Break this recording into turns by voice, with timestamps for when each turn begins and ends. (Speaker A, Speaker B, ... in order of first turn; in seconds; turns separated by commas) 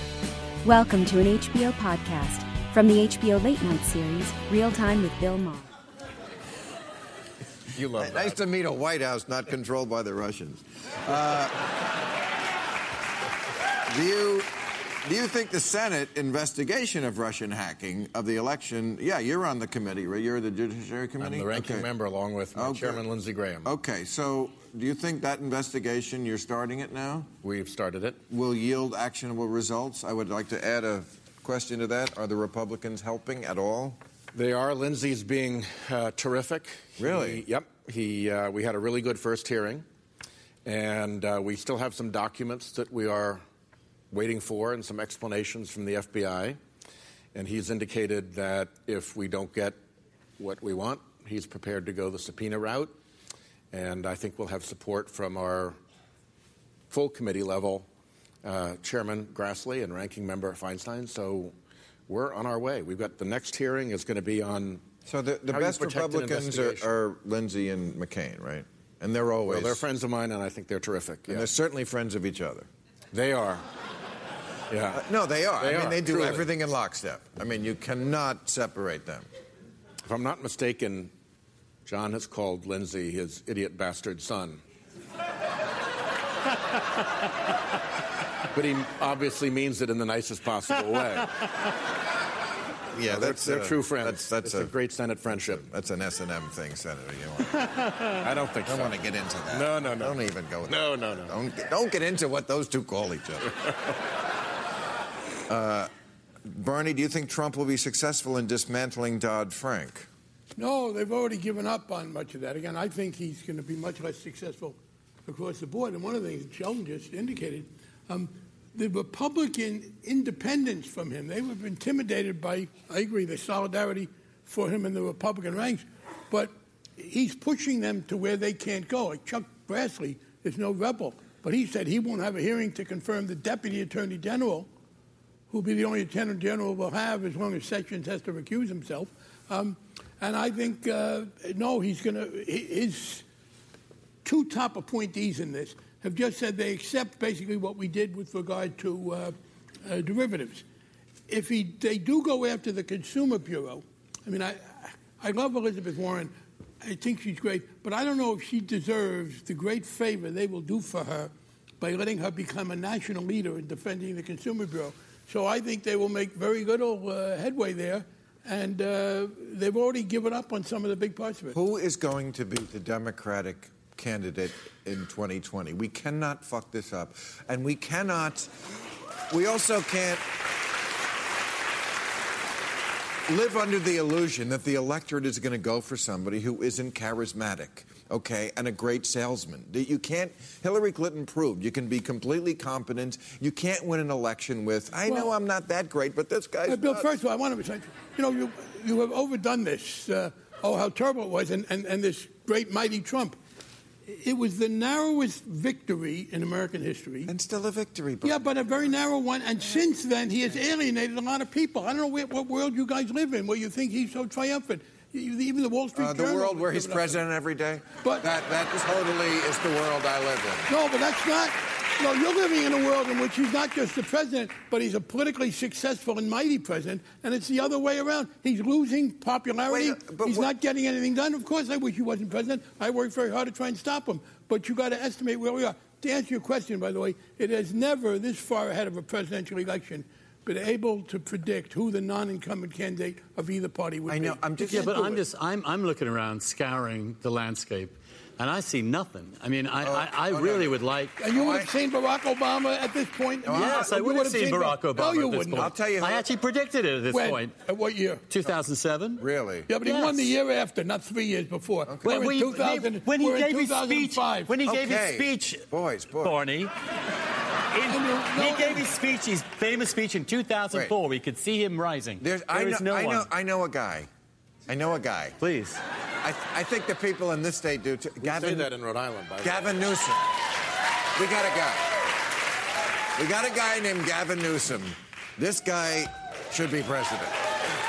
Speaker A: 0.6-5.7, Speaker B: 7.7-8.4, Speaker C: 8.0-11.6, Speaker C: 13.9-14.5, Speaker C: 15.0-21.9, Speaker B: 21.2-23.7, Speaker C: 22.5-23.0, Speaker C: 23.6-27.3, Speaker B: 27.4-28.2, Speaker C: 28.3-34.0, Speaker B: 34.3-39.8, Speaker C: 37.0-37.4, Speaker B: 40.6-43.4, Speaker B: 44.1-46.6, Speaker B: 47.3-49.8, Speaker B: 50.4-52.9, Speaker B: 53.7-55.8, Speaker B: 56.9-57.9, Speaker B: 58.4-61.5, Speaker B: 62.1-64.8, Speaker C: 65.0-69.8, Speaker B: 65.5-66.9, Speaker B: 69.4-71.5, Speaker C: 71.3-72.7, Speaker B: 73.1-73.6, Speaker B: 74.7-75.1, Speaker C: 74.9-79.3, Speaker B: 75.6-76.5, Speaker B: 80.0-81.1, Speaker B: 81.8-84.6, Speaker B: 88.5-91.4, Speaker C: 92.9-94.7, Speaker B: 93.0-95.7, Speaker C: 95.3-97.6, Speaker D: 97.6-98.1, Speaker B: 98.2-98.9, Speaker C: 98.7-103.7, Speaker B: 99.5-101.3, Speaker C: 105.5-105.9, Speaker C: 106.5-110.1, Speaker E: 110.5-134.7, Speaker E: 135.5-143.2, Speaker E: 144.2-149.3, Speaker E: 149.8-150.6, Speaker E: 151.3-171.6, Speaker C: 171.5-178.5, Speaker C: 179.3-180.2, Speaker C: 183.3-197.1, Speaker E: 195.1-195.3, Speaker E: 196.7-203.4, Speaker E: 204.1-207.3, Speaker C: 207.2-208.5, Speaker E: 208.2-217.2, Speaker C: 215.9-220.7, Speaker E: 220.7-244.9, Speaker C: 229.7-230.5, Speaker C: 244.1-245.2, Speaker D: 244.6-251.2, Speaker C: 249.8-250.8, Speaker E: 251.2-255.7, Speaker C: 251.3-251.7, Speaker C: 253.4-253.9, Speaker D: 253.5-257.5, Speaker C: 255.6-256.2, Speaker E: 257.1-258.2, Speaker D: 258.3-259.2, Speaker C: 259.2-259.7, Speaker E: 259.7-264.5, Speaker D: 259.8-260.3, Speaker D: 262.0-265.6, Speaker C: 264.6-266.4, Speaker D: 266.2-266.7, Speaker D: 267.7-273.3, Speaker E: 267.9-268.9, Speaker C: 272.2-274.1, Speaker C: 274.7-275.4, Speaker D: 275.4-275.8, Speaker C: 276.2-278.7, Speaker B: 278.2-279.7, Speaker C: 279.4-280.3, Speaker C: 281.1-281.9, Speaker C: 283.1-287.3